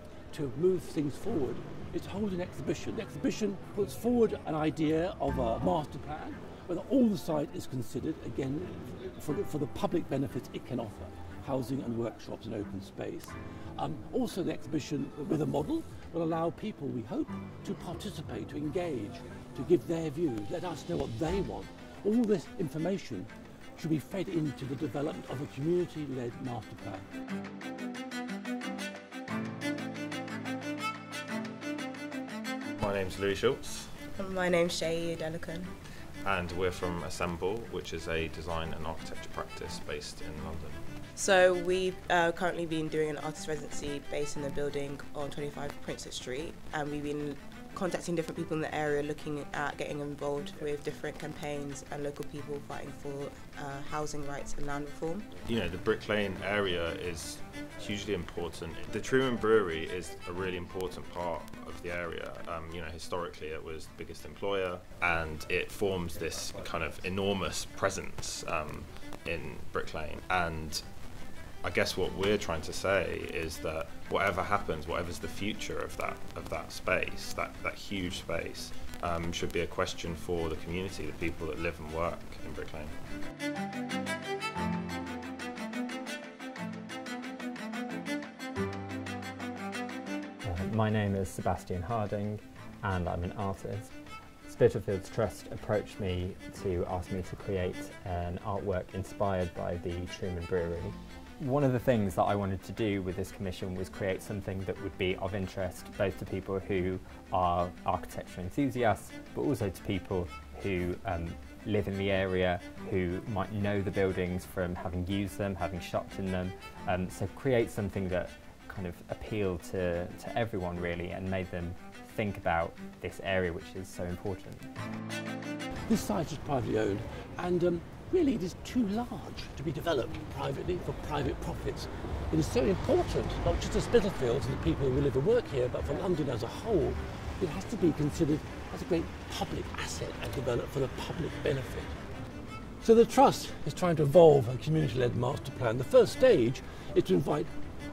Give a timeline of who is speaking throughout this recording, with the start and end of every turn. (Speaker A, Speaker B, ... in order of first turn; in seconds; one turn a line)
Speaker A: 0.3-27.1
Speaker B: 32.8-34.0
Speaker C: 34.1-35.7
Speaker B: 36.2-40.8
Speaker C: 41.1-55.3
Speaker B: 55.5-70.8
Speaker B: 71.6-82.9
Speaker D: 90.4-93.9
Speaker D: 94.4-124.7
Speaker A: 125.9-142.0
Speaker A: 142.8-147.5